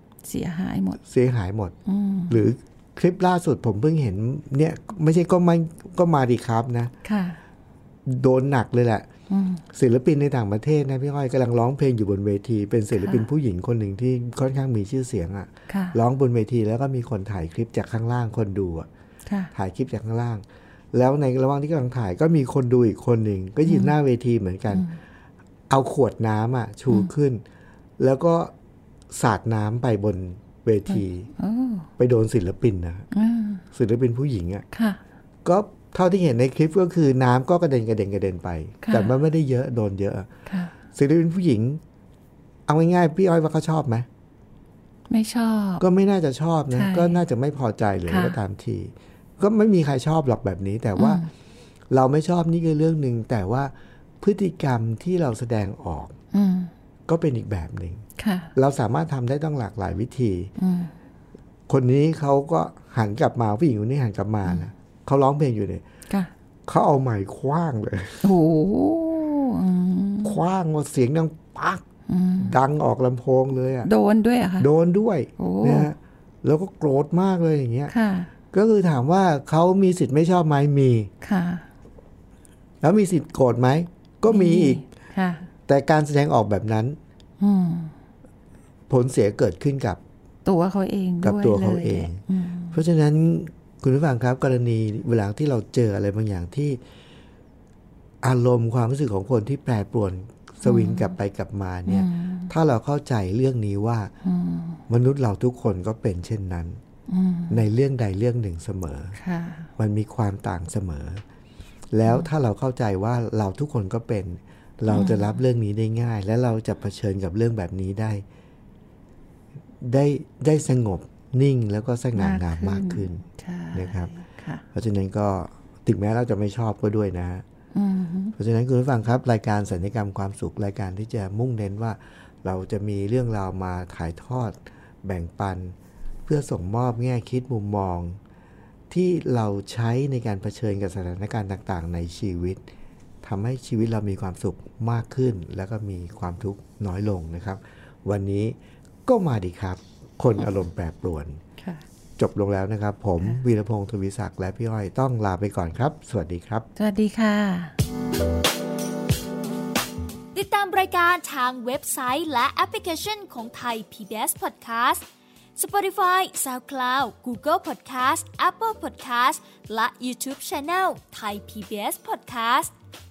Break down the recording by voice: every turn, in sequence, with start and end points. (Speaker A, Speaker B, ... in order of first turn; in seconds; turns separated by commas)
Speaker A: 0.2-1.0, Speaker B: 1.0-1.7, Speaker A: 1.9-2.4, Speaker B: 2.3-6.9, Speaker A: 7.0-7.4, Speaker B: 8.1-9.1, Speaker A: 9.3-9.6, Speaker B: 9.7-18.9, Speaker A: 12.9-13.2, Speaker A: 15.7-16.0, Speaker A: 19.3-19.5, Speaker B: 19.5-24.9, Speaker A: 23.6-23.9, Speaker A: 24.7-25.0, Speaker B: 25.7-27.4, Speaker B: 28.0-28.5, Speaker B: 29.1-31.3, Speaker A: 30.9-31.9, Speaker B: 32.0-33.1, Speaker A: 33.1-33.6, Speaker B: 33.7-34.6, Speaker A: 34.7-35.0, Speaker B: 35.4-40.3, Speaker A: 38.8-39.1, Speaker A: 40.5-40.7, Speaker B: 40.9-41.8, Speaker B: 42.7-44.1, Speaker A: 45.1-45.8, Speaker B: 45.8-51.2, Speaker A: 46.7-47.2, Speaker A: 48.1-48.4, Speaker A: 51.0-51.3, Speaker B: 51.9-56.1, Speaker A: 56.3-56.7, Speaker B: 57.1-58.0, Speaker A: 58.2-58.5, Speaker B: 58.5-60.5, Speaker A: 60.6-60.9, Speaker B: 61.7-65.8, Speaker B: 66.7-68.3, Speaker A: 68.2-70.4, Speaker B: 70.2-71.8, Speaker A: 72.1-72.5, Speaker B: 72.4-73.9, Speaker A: 73.8-74.7, Speaker B: 74.6-77.9, Speaker A: 75.4-75.9, Speaker A: 77.9-78.3, Speaker B: 78.5-81.1, Speaker A: 81.2-81.6, Speaker B: 82.8-84.8, Speaker A: 84.3-85.5, Speaker B: 85.7-87.0, Speaker A: 87.4-87.9, Speaker B: 88.9-90.0, Speaker A: 90.5-92.8, Speaker B: 91.2-96.8, Speaker B: 98.2-104.1, Speaker A: 100.6-101.1, Speaker A: 101.9-102.5, Speaker A: 104.2-104.8, Speaker B: 104.9-106.8, Speaker A: 107.1-107.6, Speaker B: 107.5-109.2, Speaker A: 109.2-109.7, Speaker B: 109.8-111.2, Speaker B: 111.9-118.2, Speaker A: 114.9-115.3, Speaker B: 119.8-123.2, Speaker A: 122.2-124.6, Speaker B: 123.7-124.1, Speaker B: 124.7-127.4, Speaker A: 127.7-128.3, Speaker B: 128.4-135.7, Speaker B: 136.2-138.2, Speaker B: 138.9-142.6, Speaker B: 143.2-151.4, Speaker A: 151.6-151.8, Speaker B: 152.2-156.7, Speaker A: 156.8-157.7, Speaker C: 160.3-165.0, Speaker C: 165.6-172.7